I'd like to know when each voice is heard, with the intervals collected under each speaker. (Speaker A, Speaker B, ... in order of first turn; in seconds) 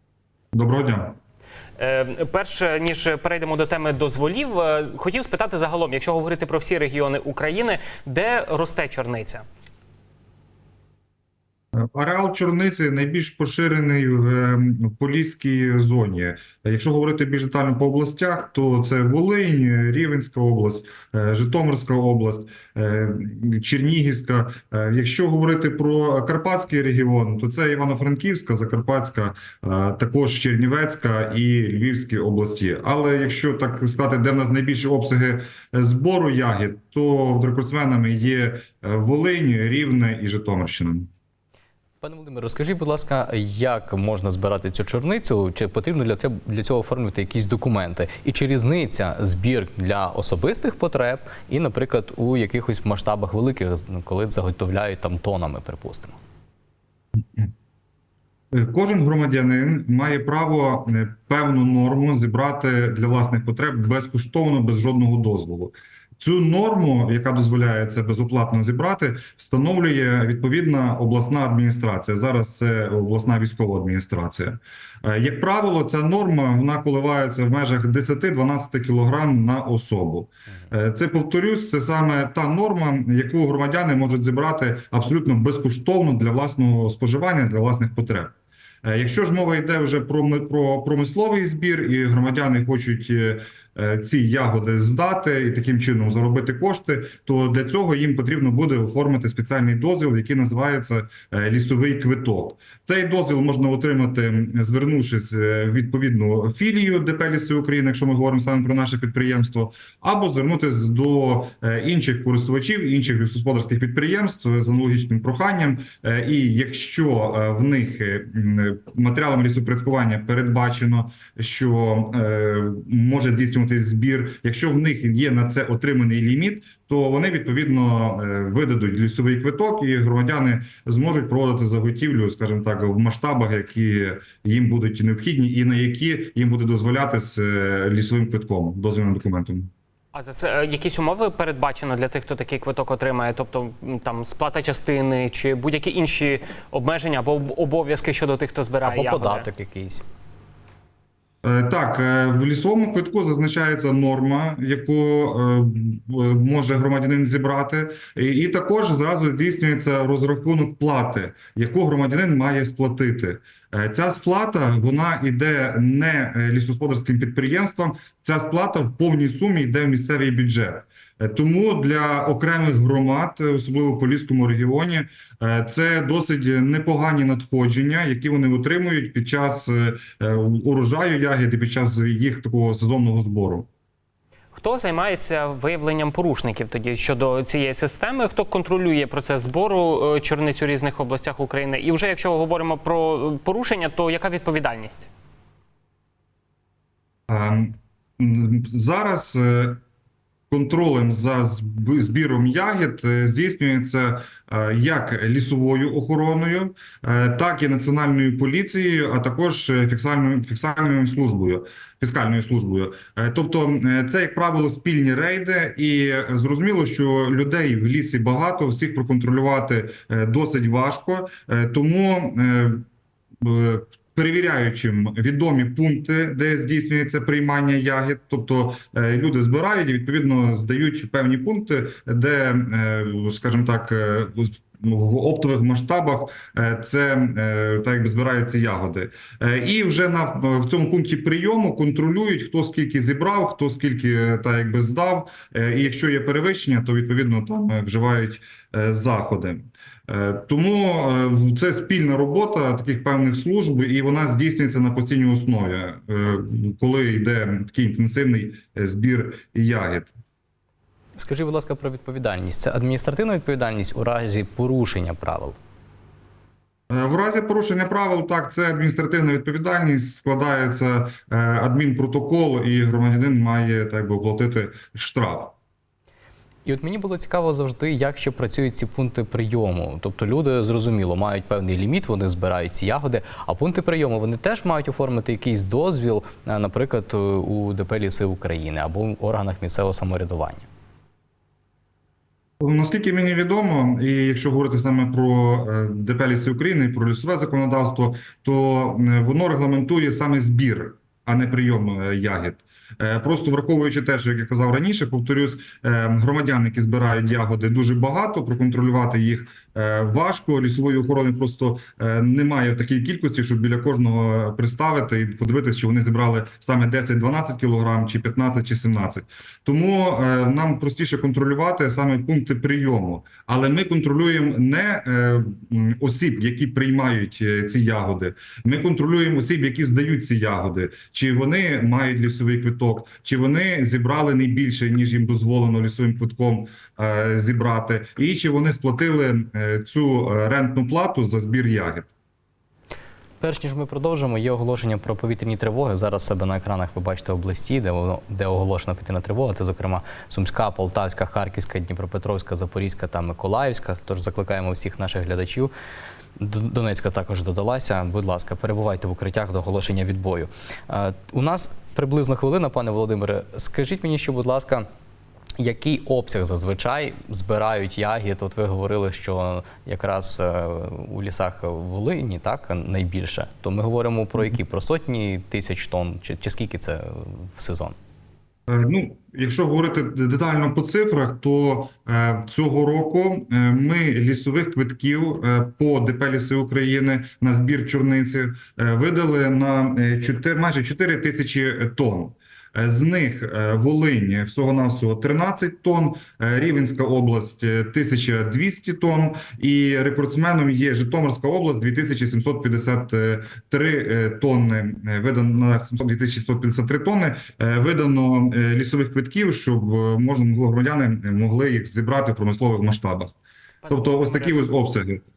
Speaker A: 0.5-1.2, 11.7-41.1, 58.5-139.7, 151.4-183.7, 197.3-199.8, 200.5-222.8, 223.4-260.1, 266.9-275.6, 292.6-342.1, 378.7-413.4, 413.9-415.2
Speaker B: 1.8-9.4, 140.1-149.5, 184.5-195.1, 413.8-414.6
Speaker C: 42.0-56.1, 148.8-150.0, 261.2-265.6, 276.6-290.7, 343.4-355.7, 356.4-364.9, 365.6-377.9